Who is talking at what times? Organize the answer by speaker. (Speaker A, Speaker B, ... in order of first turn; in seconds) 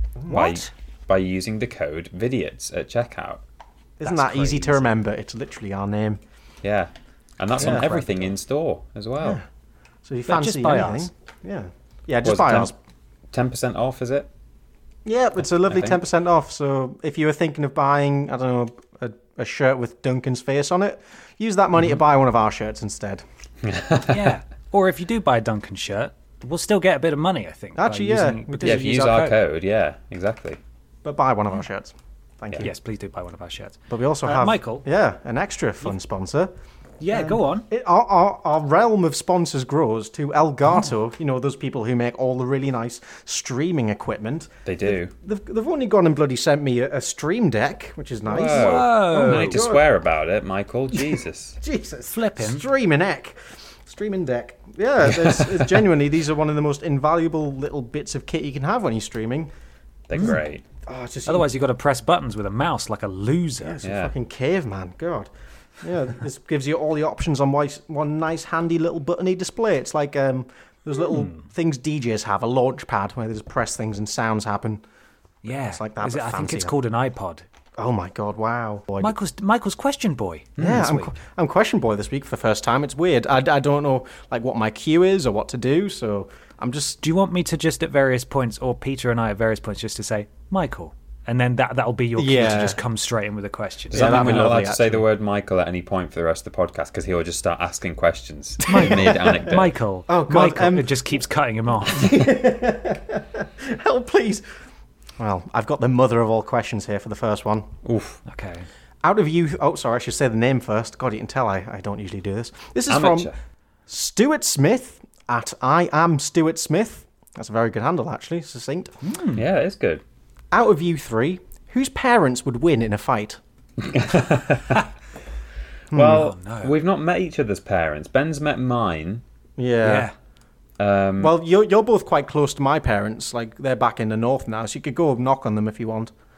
Speaker A: 0.3-0.7, 7.6-8.3, 10.3-11.1, 24.1-29.4, 32.6-34.9, 37.0-37.7, 48.4-49.6, 52.1-52.7, 61.3-63.8, 71.1-71.5, 75.4-77.5, 79.0-81.1, 87.0-94.5, 98.7-102.2, 108.3-108.7, 119.0-119.5, 126.0-126.8, 129.8-130.1
Speaker B: 0.3-3.4, 4.0-4.8, 6.6-9.4, 12.2-12.7, 13.3-14.3, 15.7-16.0, 23.6-24.3, 28.6-30.6, 44.7-45.1, 48.3-51.6, 55.1-55.7, 60.1-60.6, 63.8-64.1, 93.9-99.8, 107.8-108.2, 112.9-113.3, 119.3-120.0, 123.8-124.8, 125.9-129.2, 130.8-131.3
Speaker C: 4.0-6.2, 7.6-7.9, 10.1-12.8, 15.1-23.2, 27.8-29.2, 31.0-32.7, 33.9-36.5, 37.1-49.9, 51.0-59.5, 60.8-61.5, 63.6-65.3, 65.8-74.8, 75.5-76.7, 77.8-79.2, 80.6-87.0, 92.2-92.8, 93.9-95.0, 98.6-99.4, 100.1-101.2, 101.9-104.5, 105.2-107.7, 109.0-113.3, 113.9-119.0, 120.5-123.4, 125.9-126.2, 129.6-130.1, 131.2-136.1